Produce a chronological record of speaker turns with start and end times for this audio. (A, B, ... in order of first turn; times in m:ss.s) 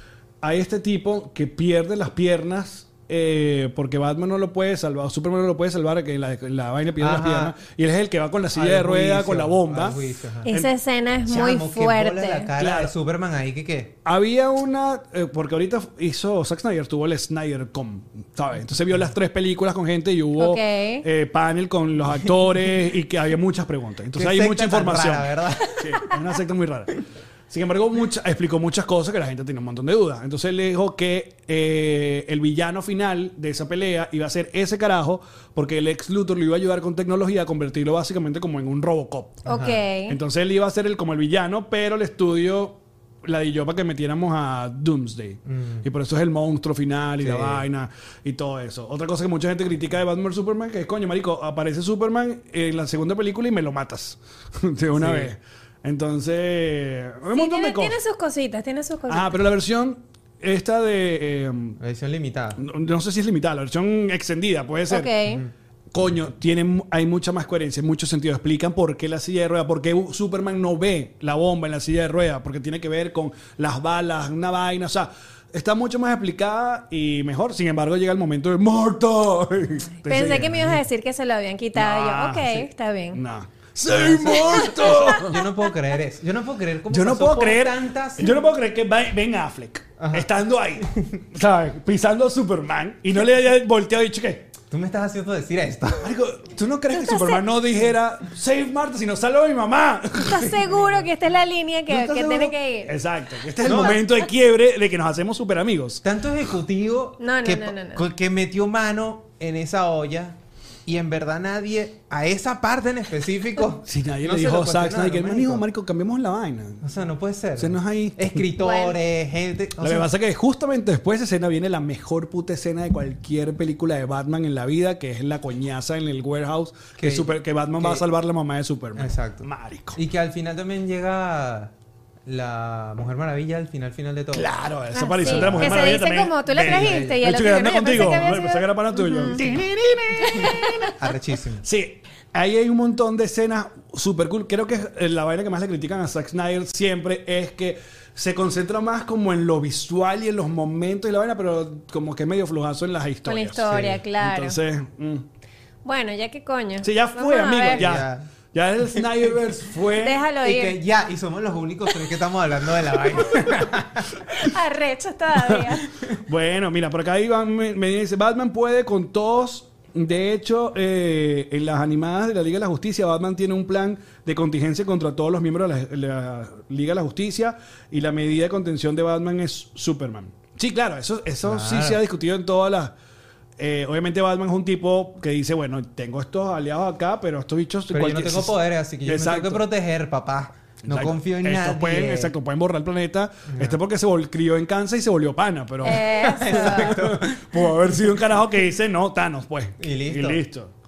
0:00.4-0:10.7 A
0:07.0-0:07.6 B
0:08.5-0:10.5 B
0:10.4-0:12.5 C
0:11.3-0:13.9 B
0:12.6-0:12.9 A
0:14.0-0:26.9 A
0:20.4-0:21.0 C
0:24.1-0:25.8 B
0:27.5-0:39.4 A
0:39.4-0:39.8 B
0:39.5-0:40.2 C
0:40.1-0:58.0 A
0:45.4-0:45.8 B
0:47.2-0:47.6 B
0:55.0-0:55.3 B
0:57.3-0:59.4 C
0:59.1-1:01.8 A
1:01.8-1:02.6 B
1:02.6-1:05.1 A
1:04.9-1:05.4 C
1:05.9-1:20.6 A
1:20.0-1:23.2 C
1:21.7-1:25.4 A
1:23.9-1:28.3 B
1:24.4-1:25.2 C
1:26.9-1:34.5 A
1:30.0-1:31.2 B
1:34.7-1:36.1 B
1:36.0-1:40.6 A
1:37.0-1:37.4 C
1:40.2-1:42.9 C
1:40.6-1:41.0 B
1:41.9-1:46.0 A
1:43.6-1:44.0 B
1:46.0-1:55.6 B
1:47.2-1:48.0 C
1:53.8-1:56.8 A
1:56.8-2:00.1 B
1:57.6-1:58.4 A
1:58.6-1:59.0 C
1:59.8-2:10.0 A
2:07.0-2:08.0 B
2:09.0-2:11.7 B
2:12.2-2:14.5 B
2:14.3-2:21.0 A
2:14.9-2:19.4 C
2:15.2-2:16.0 B
2:16.5-2:17.2 B
2:20.4-2:20.9 C
2:20.4-2:21.6 B
2:21.6-2:35.2 A
2:33.2-2:34.6 C
2:33.7-2:34.0 B
2:35.8-2:37.9 C
2:36.8-2:40.2 A
2:37.7-2:38.3 B
2:40.0-2:40.8 C
2:40.4-2:44.1 B
2:44.4-2:45.9 C
2:46.2-3:02.9 A
3:01.4-3:02.0 B
3:03.6-3:09.7 A
3:07.9-3:12.3 B
3:10.8-3:20.7 A
3:13.5-3:13.8 B
3:15.8-3:17.0 C
3:16.2-3:17.6 B
3:19.8-3:20.4 B